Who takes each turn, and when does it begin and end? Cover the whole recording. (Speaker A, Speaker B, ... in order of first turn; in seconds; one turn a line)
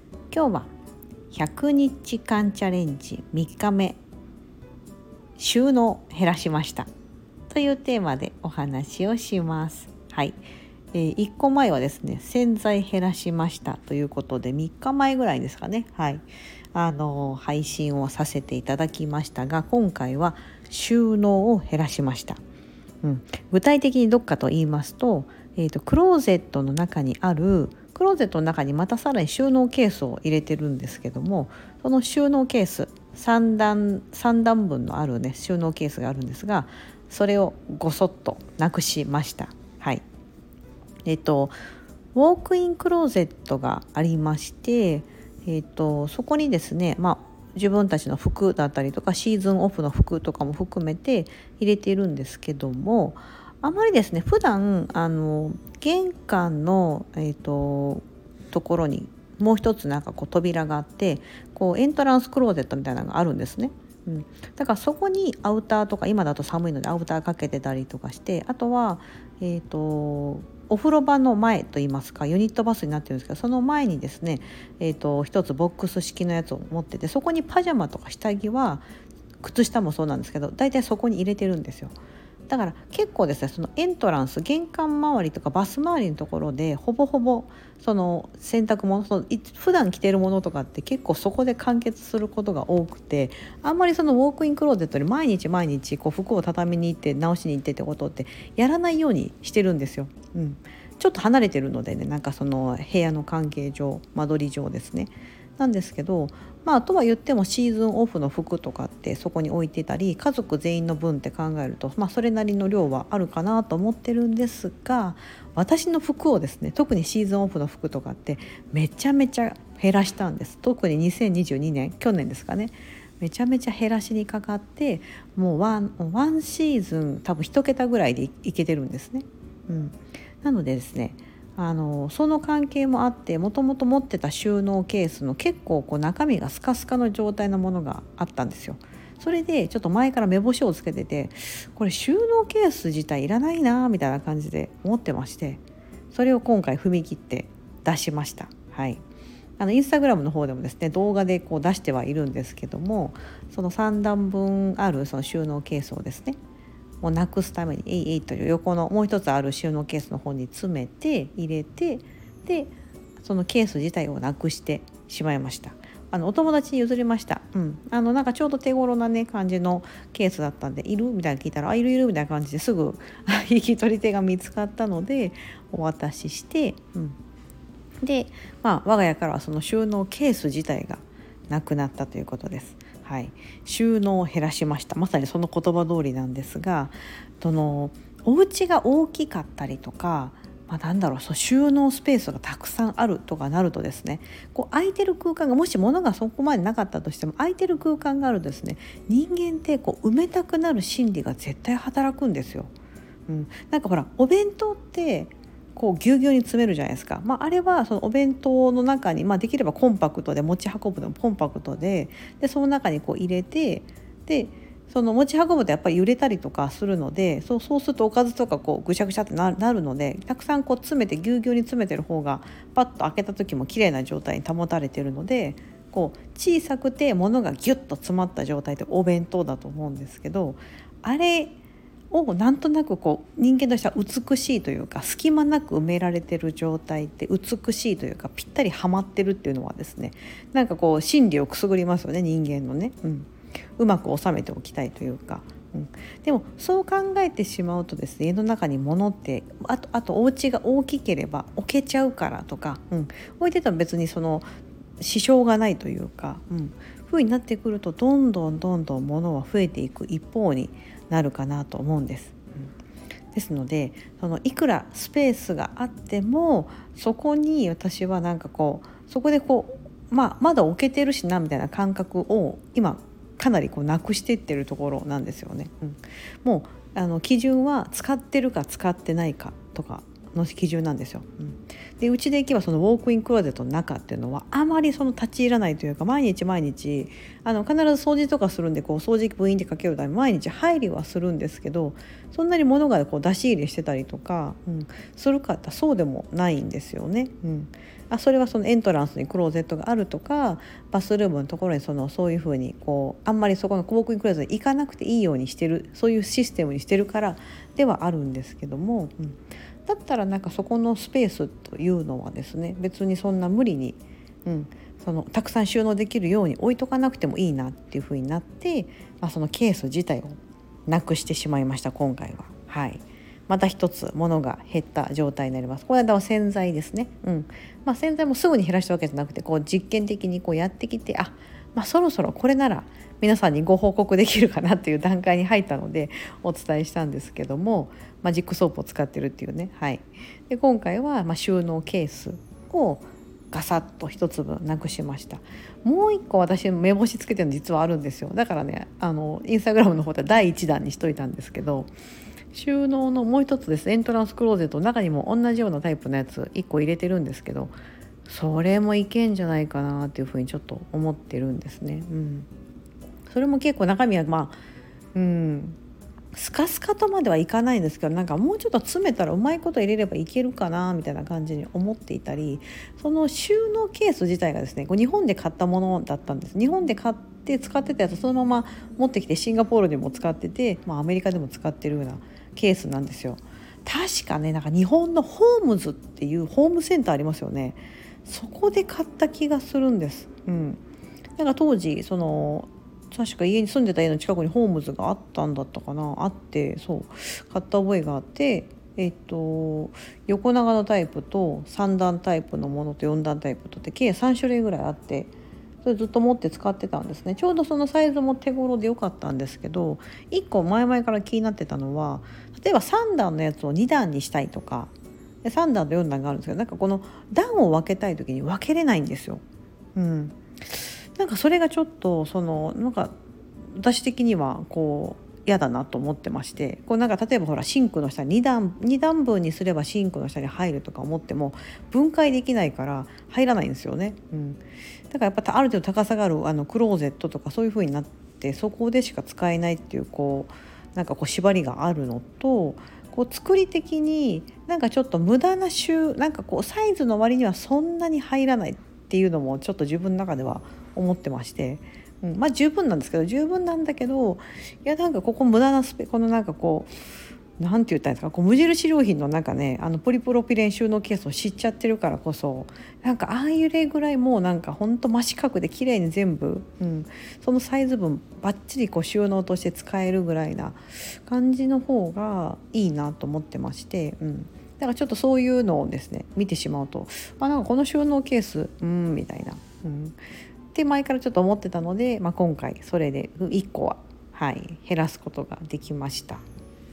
Speaker A: 0.3-0.7
Speaker A: 1.3-4.0
Speaker A: 5.4-6.9
Speaker A: 7.5-10.4
Speaker A: 10.9-22.4
Speaker A: 23.0-40.0
Speaker A: 41.0-41.6
Speaker A: 42.1-78.9
Speaker A: 79.4-82.0
Speaker A: 82.5-149.0
Speaker A: 149.6-156.4
Speaker A: 157.0-177.2
Speaker A: 178.0-202.7
Speaker A: 203.3-231.5
Speaker A: 232.1-262.7
Speaker A: 263.3-351.9
Speaker A: 352.5-362.5
Speaker A: 363.3-364.6
Speaker A: 365.1-365.8
Speaker A: 366.3-390.8
Speaker A: 391.4-405.3
Speaker A: 405.8-414.9
Speaker A: 415.4-419.4
Speaker A: 419.9-423.2
Speaker A: 423.7-456.9
Speaker A: 457.6-480.2
Speaker A: 480.7-486.4